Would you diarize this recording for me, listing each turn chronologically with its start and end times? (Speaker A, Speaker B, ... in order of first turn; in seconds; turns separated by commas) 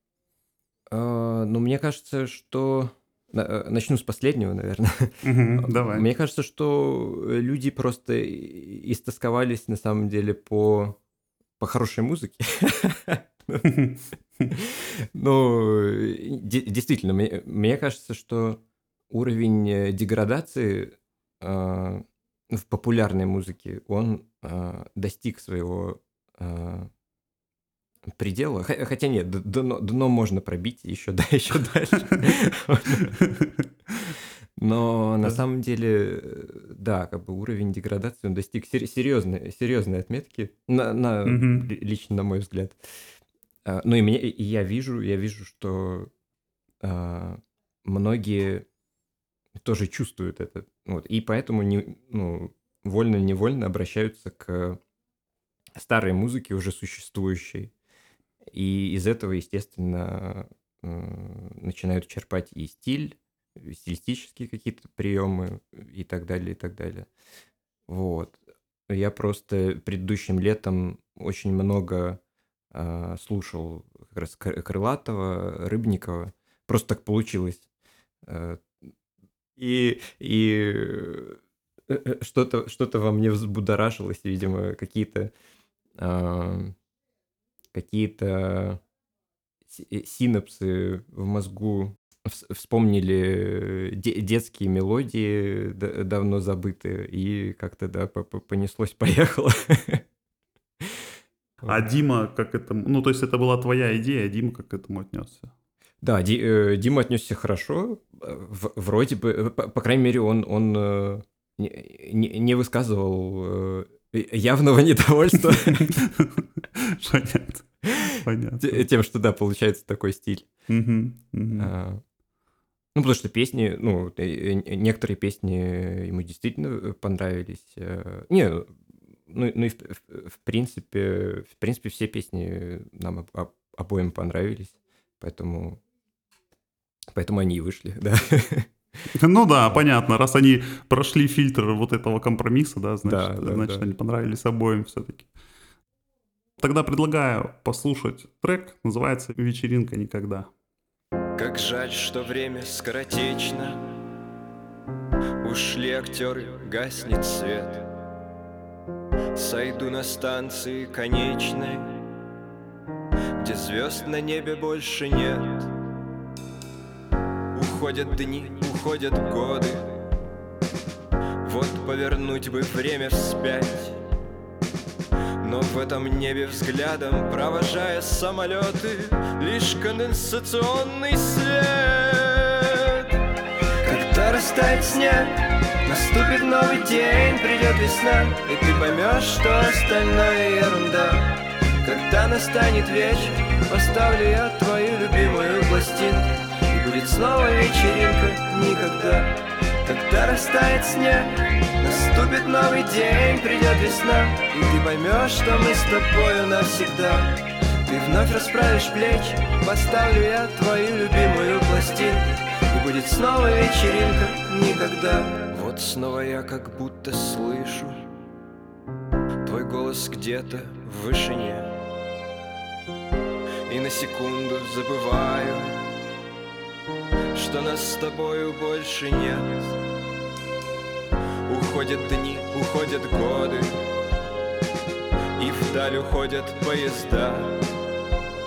Speaker A: 0.9-11.0, Speaker B: 5.2-6.1, Speaker A: 11.6-13.7, Speaker B: 13.6-14.5, Speaker A: 14.5-26.9, Speaker A: 28.1-33.1, Speaker B: 33.2-33.6, Speaker A: 34.6-42.8, Speaker B: 41.2-41.7, Speaker A: 43.6-46.1, Speaker A: 46.8-48.6, Speaker A: 49.6-54.8, Speaker A: 55.8-57.7, Speaker A: 58.5-67.1, Speaker A: 67.9-68.4, Speaker A: 68.9-72.2, Speaker A: 72.7-77.6, Speaker A: 78.2-78.7, Speaker A: 79.6-81.4, Speaker A: 81.9-85.3, Speaker A: 86.0-86.8, Speaker A: 87.7-88.8, Speaker A: 89.7-100.0, Speaker B: 101.7-105.5, Speaker A: 106.0-115.9, Speaker B: 115.4-118.8, Speaker A: 117.8-120.5, Speaker B: 120.7-121.7, Speaker A: 121.5-122.0, Speaker A: 122.9-128.7, Speaker A: 129.3-135.8, Speaker A: 137.1-138.7, Speaker B: 139.1-145.3, Speaker A: 143.0-143.8, Speaker B: 146.6-150.5, Speaker C: 151.4-153.8, Speaker C: 155.4-157.8, Speaker C: 159.3-162.0, Speaker C: 163.4-165.7, Speaker C: 167.5-169.8, Speaker C: 171.4-174.0, Speaker C: 175.4-183.1, Speaker C: 183.8-218.0, Speaker C: 219.4-221.7, Speaker C: 223.7-225.8, Speaker C: 227.3-229.7, Speaker C: 231.5-233.8, Speaker C: 235.4-237.6